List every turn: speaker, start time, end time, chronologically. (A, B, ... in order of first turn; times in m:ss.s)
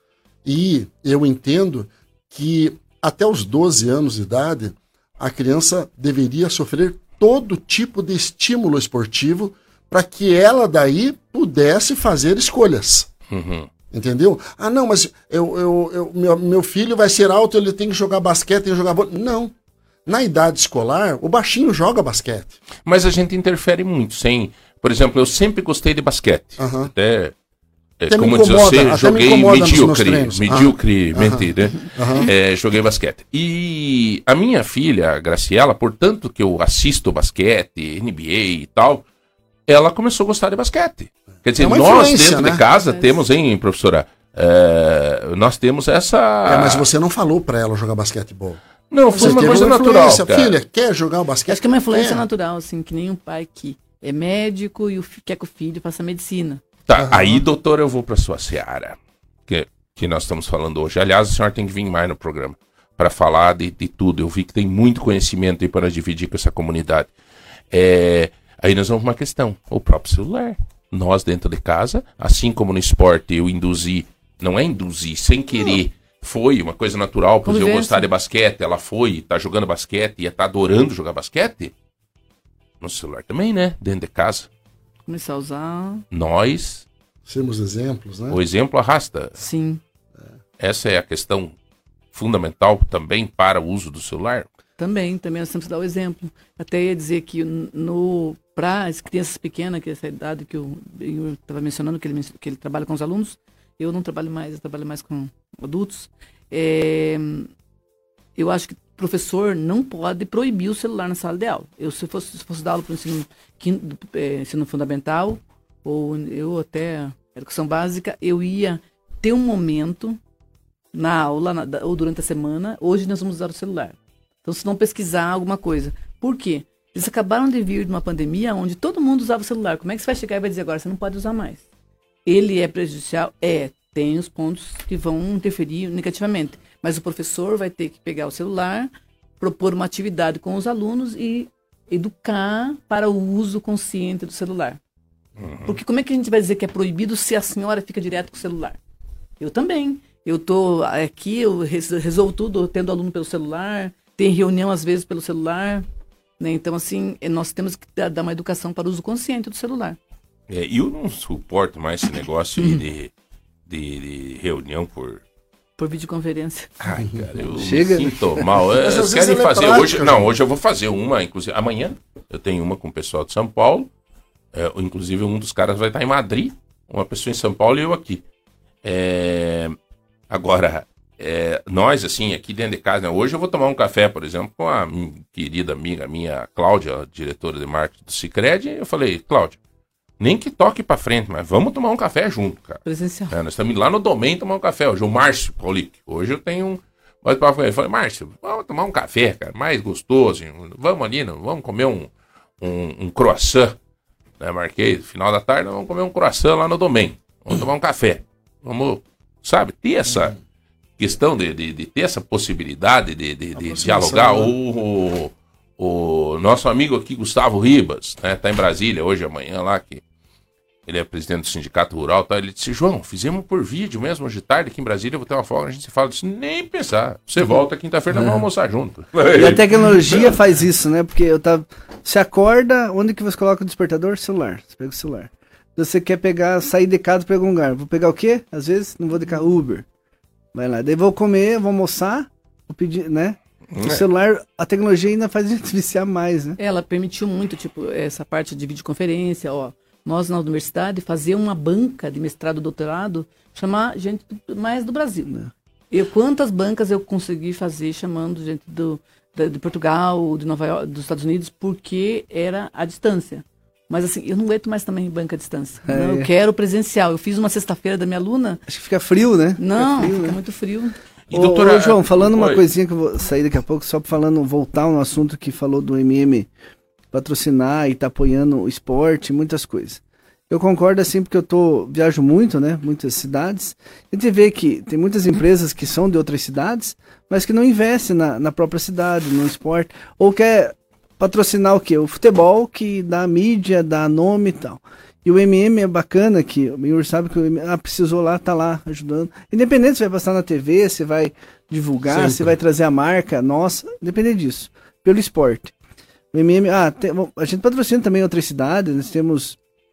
0:00.4-0:13.1 A
0:13.3-0:13.7 B
0:13.9-0:19.5 A
0:20.0-0:22.6 A
0:22.8-0:27.3 B
0:26.6-0:26.9 A
0:28.0-0:39.0 B
0:28.1-0:32.3 A
0:39.7-0:46.8 B
0:41.6-0:42.6 A
0:42.7-0:43.2 C
0:46.4-0:48.6 A
0:48.9-0:50.5 B
0:49.1-0:52.2 A
0:51.5-0:56.6 C
0:56.9-1:07.1 B
0:57.0-0:57.4 A
1:07.7-1:21.7 B
1:17.4-1:18.1 C
1:22.8-1:24.5 B
1:25.1-1:26.0 C
1:26.1-1:26.8 B
1:27.2-1:28.4 A
1:28.3-1:29.4 B
1:29.4-1:29.8 C
1:30.6-1:31.5 B
1:32.1-1:34.5 B
1:34.8-1:47.5 C
1:48.4-2:00.2 C
2:00.9-2:11.6 C
2:12.2-2:18.9 C
2:19.4-2:24.8 C
2:25.4-2:25.7 B
2:25.6-2:28.8 C
2:29.4-2:35.8 C
2:36.4-2:40.0 C
2:40.5-2:43.1 B
2:43.7-2:45.2 B
2:45.8-2:46.7 C
2:46.8-2:53.9 B
2:47.6-2:48.4 D
2:48.7-2:50.3 A
2:54.5-2:58.2 B
2:58.8-2:59.8 B
3:00.3-3:09.6 B
3:10.2-3:22.1 B
3:12.8-3:13.4 C
3:22.6-3:23.8 B
3:24.4-3:30.4 B
3:31.0-3:40.0 B
3:33.5-3:34.5 A
3:40.9-3:50.4 B
3:48.1-3:48.4 D
3:49.3-3:59.8 D
4:00.5-4:06.6 D
4:03.7-4:04.0 B
4:06.6-4:15.3 C
4:15.9-4:28.6 C
4:25.8-4:26.3 D
4:28.7-4:30.4 D
4:29.6-4:30.9 C
4:31.3-4:32.6 B
4:31.3-4:36.5 D
4:37.1-5:05.7 D
5:02.1-5:02.5 A
5:06.3-5:09.6 D